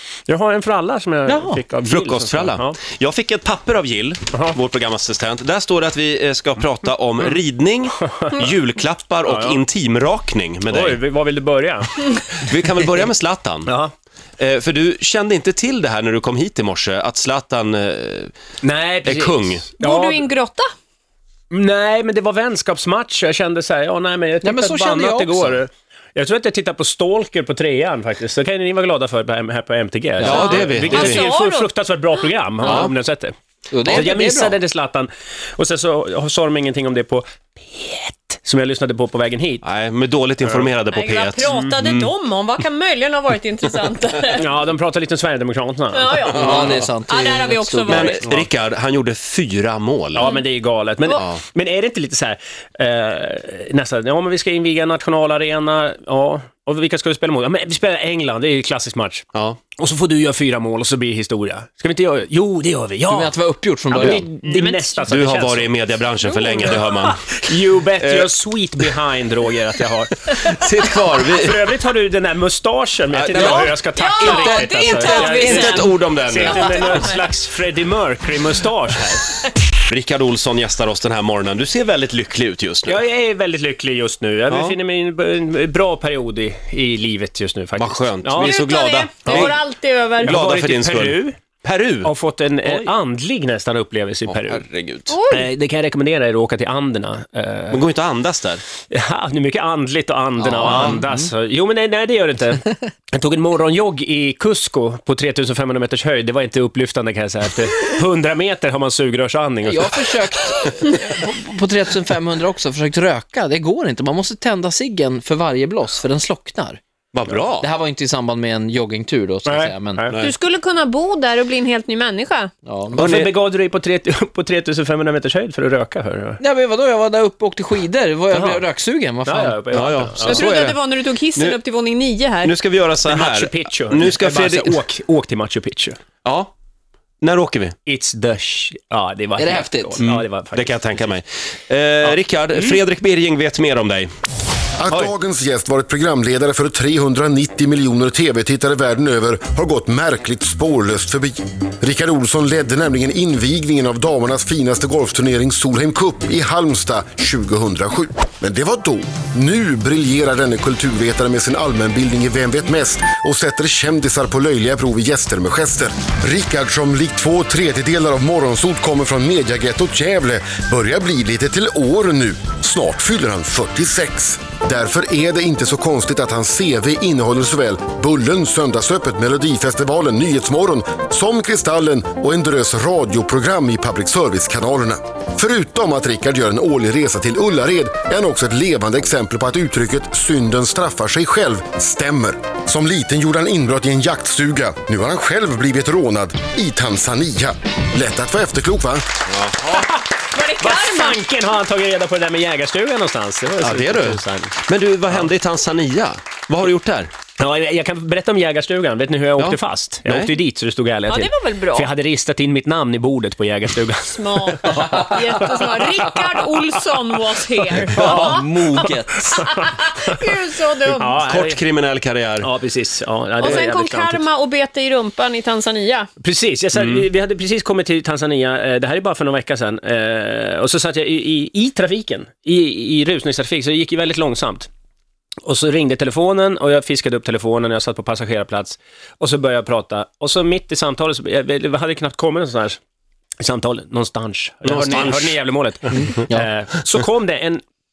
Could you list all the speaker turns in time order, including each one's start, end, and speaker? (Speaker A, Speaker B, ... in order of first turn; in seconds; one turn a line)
Speaker A: 0.3-2.8
Speaker B: 1.2-1.6
Speaker C: 1.8-11.0
Speaker A: 4.3-4.6
Speaker A: 8.0-8.5
Speaker A: 9.2-9.6
Speaker A: 10.7-12.5
Speaker C: 12.3-13.7
Speaker A: 13.7-13.9
Speaker C: 14.4-18.3
Speaker A: 18.6-20.3
Speaker C: 19.0-19.7
Speaker D: 19.7-20.7
Speaker A: 21.5-39.6
Speaker B: 24.4-25.6
Speaker B: 30.2-31.0
Speaker C: 30.2-31.3
Speaker D: 30.2-31.7
Speaker C: 32.6-32.9
Speaker B: 33.7-34.6
Speaker C: 39.6-42.1
Speaker A: 40.4-40.7
Speaker D: 40.8-44.5
Speaker A: 44.3-46.8
Speaker D: 45.9-48.3
Speaker C: 46.2-46.9
Speaker B: 46.3-48.2
Speaker C: 47.9-50.2
Speaker A: 50.1-63.3
Speaker D: 50.2-50.4
Speaker C: 59.3-59.6
Speaker B: 63.1-64.2
Speaker A: 63.9-65.8
Speaker D: 64.4-65.3
Speaker C: 65.0-67.2
Speaker A: 66.4-70.6
Speaker C: 68.0-68.3
Speaker C: 70.3-71.6
Speaker A: 71.1-79.4
Speaker B: 73.2-75.9
Speaker D: 73.5-77.2
Speaker C: 74.5-77.1
Speaker C: 79.8-83.0
Speaker A: 82.8-88.6
Speaker C: 84.5-84.8
Speaker C: 87.8-89.6
Speaker D: 88.3-90.4
Speaker A: 89.2-89.6
Speaker A: 90.2-91.4
Speaker C: 90.2-92.1
Speaker A: 92.0-94.6
Speaker C: 92.7-92.9
Speaker C: 94.3-95.2
Speaker D: 95.1-95.5
Speaker A: 95.3-97.8
Speaker C: 97.7-98.6
Speaker A: 98.9-110.0
Speaker B: 100.4-101.3
Speaker C: 100.6-101.0
Speaker B: 109.6-116.8
Speaker C: 117.1-117.7
Speaker B: 117.4-120.0
Speaker A: 119.4-120.2
Speaker D: 120.1-122.5
Speaker B: 122.7-123.1
Speaker A: 122.9-126.4
Speaker C: 122.9-123.3
Speaker B: 126.4-129.8
Speaker C: 128.3-128.6
Speaker A: 129.2-130.6
Speaker C: 129.7-130.8
Speaker D: 130.2-132.6
Speaker C: 131.3-131.6
Speaker C: 132.4-134.8
Speaker A: 133.0-136.0
Speaker C: 136.2-136.5
Speaker C: 137.2-137.7
Speaker A: 137.8-141.1
Speaker B: 139.4-140.0
Speaker C: 140.0-144.1
Speaker A: 142.0-142.8
Speaker E: 144.8-199.0
Speaker A: 144.9-145.1
Speaker C: 199.3-199.8
Speaker A: 199.8-200.0
Speaker D: 200.3-201.2
Speaker A: 200.6-204.6
Speaker C: 203.6-207.1
Speaker A: 207.4-215.0
Speaker C: 209.4-210.3
Speaker D: 211.1-211.9
Speaker D: 214.1-221.3
Speaker B: 217.9-219.4
Speaker A: 217.9-218.4
Speaker A: 219.2-220.3
Speaker C: 220.8-222.5
Speaker A: 220.9-221.6
Speaker A: 222.4-224.2
Speaker D: 223.4-226.1
Speaker A: 226.2-234.7
Speaker A: 235.4-242.8
Speaker A: 243.4-247.6
Speaker C: 244.6-245.4
Speaker B: 245.9-246.5